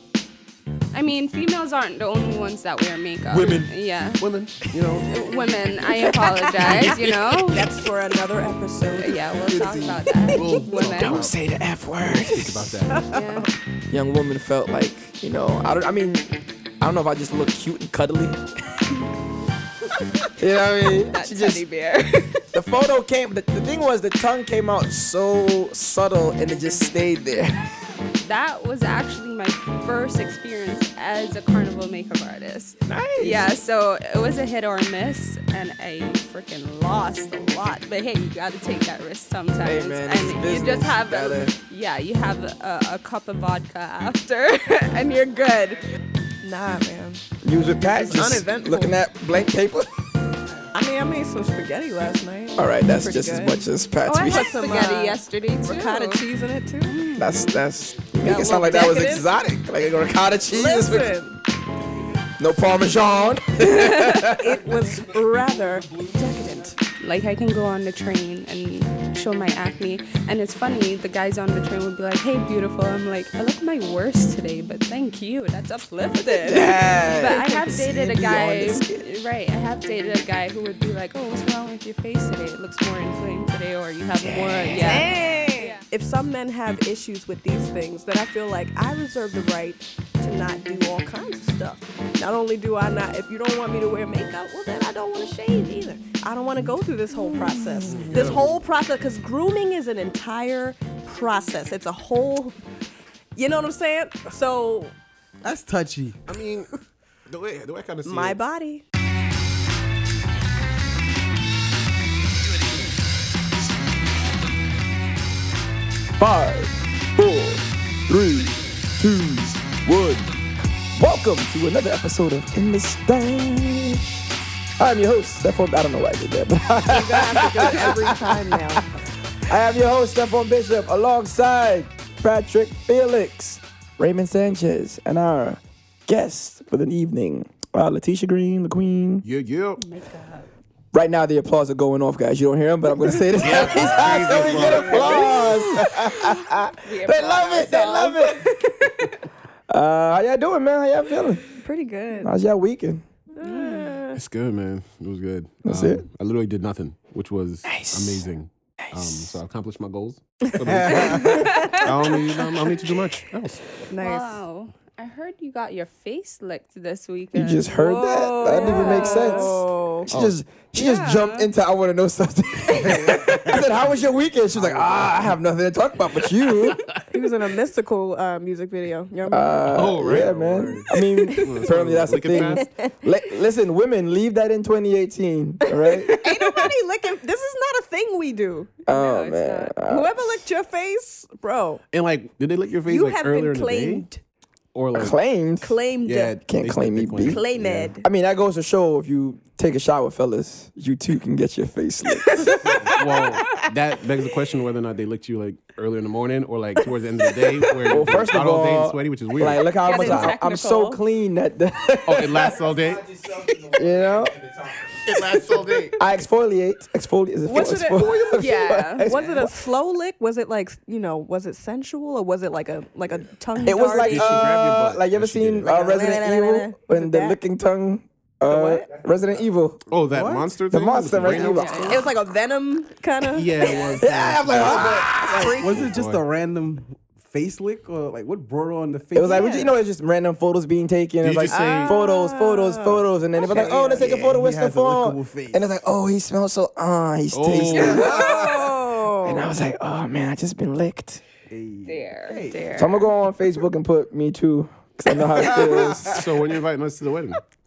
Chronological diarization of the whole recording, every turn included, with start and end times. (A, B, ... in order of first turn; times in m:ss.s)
0:00.9-0:04.2 A
0:03.3-0:05.1 B
0:05.0-0:07.6 A
0:06.0-0:09.3 C
0:06.6-0:07.7 B
0:09.0-0:11.3 A
0:09.4-0:11.4 B
0:10.2-0:10.6 C
0:10.8-0:12.7 D
0:12.1-0:13.1 B
0:12.9-0:13.5 C
0:13.1-0:13.5 A
0:13.9-0:18.4 D
0:20.4-0:21.6 D
0:21.1-0:22.5 A
0:22.5-0:27.7 D
0:28.2-0:45.9 A
0:32.8-0:33.5 D
0:39.6-0:41.5 D
0:46.4-0:47.2 C
0:47.4-0:49.9 D
0:48.0-0:49.0 C
0:50.7-0:53.6 C
0:52.6-0:54.5 D
0:54.0-0:56.2 A
0:54.2-0:57.0 C
0:56.8-0:57.6 A
0:57.2-1:01.1 D
0:58.2-0:59.3 C
1:00.5-1:01.4 C
1:02.4-1:04.6 D
1:03.6-1:04.4 A
1:04.4-1:06.6 C
1:06.1-1:25.8 A
1:16.4-1:19.0 D
1:24.2-1:24.9 D
1:24.7-1:42.6 C
1:37.8-1:38.6 B
1:43.3-1:44.9 C
1:45.4-1:46.3 E
1:46.3-1:46.8 B
1:47.3-1:48.4 B
1:48.0-1:48.8 C
1:56.2-2:00.2 D
2:00.9-2:04.2 D
2:04.8-2:08.8 D
2:06.8-2:08.9 C
2:09.4-2:19.2 D
2:19.2-2:19.8 B
2:19.8-2:20.5 A
2:20.9-2:28.7 D
2:23.4-2:25.9 B
2:23.8-2:25.5 C
2:26.8-2:28.4 A
2:29.7-2:31.4 D
2:31.5-2:32.3 C
2:32.2-2:33.0 D
2:33.4-2:34.2 C
2:33.4-2:34.0 A
2:34.1-2:43.7 B
2:35.6-2:36.0 D
2:37.6-2:38.2 D
2:38.9-2:39.4 D
2:40.6-2:41.5 E
2:41.1-2:42.6 C
2:41.1-2:41.8 A
2:43.9-2:44.4 C
2:44.0-2:47.7 A
2:47.3-2:56.8 D
2:47.7-2:50.1 C
2:48.4-2:49.5 A
2:50.1-2:50.4 B
2:50.8-2:51.5 A
2:52.7-2:53.6 E
2:56.6-2:57.0 B
2:57.1-2:59.7 C
2:59.3-3:06.2 D
2:59.7-3:02.6 B
3:00.9-3:01.5 C
3:02.3-3:02.9 C
3:05.8-3:08.8 C
3:08.8-3:10.4 D
3:08.9-3:09.7 A
3:09.8-3:11.8 C
3:11.9-3:14.1 B
3:12.9-3:14.2 C
3:14.7-3:15.2 B
3:14.9-3:15.8 D
3:15.6-3:16.4 C
3:16.0-3:17.9 B
3:16.4-3:17.4 D
3:17.2-3:18.1 C
3:18.0-3:22.8 D
3:22.3-3:23.6 C
3:22.6-3:30.3 B
3:27.9-3:32.6 D
3:29.8-3:31.0 A
3:32.0-3:33.5 B
3:33.5-3:34.7 D
3:35.0-3:36.1 B
3:36.0-3:39.5 D
3:37.4-3:44.5 C
3:38.4-3:39.4 A
3:43.6-3:49.9 D
3:43.8-3:45.8 B
3:45.6-3:47.4 C
3:48.4-3:48.9 C
3:49.9-3:52.1 B
3:50.0-3:50.5 E
3:50.7-3:52.0 D
3:51.3-3:54.1 C
3:51.5-3:52.1 A
3:53.2-3:56.2 B
3:54.0-3:55.6 D
3:54.6-3:55.8 C
3:55.1-3:59.6 E
3:59.1-4:08.5 D
3:59.2-3:59.7 C
4:01.2-4:02.0 B
4:01.5-4:04.1 C
4:03.4-4:05.6 E
4:07.3-4:08.8 B
4:07.7-4:09.5 C
4:09.2-4:11.2 D
4:11.5-4:12.8 E
4:11.8-4:13.0 A
4:12.7-4:16.2 D
4:15.4-4:16.2 E
4:16.0-4:17.4 B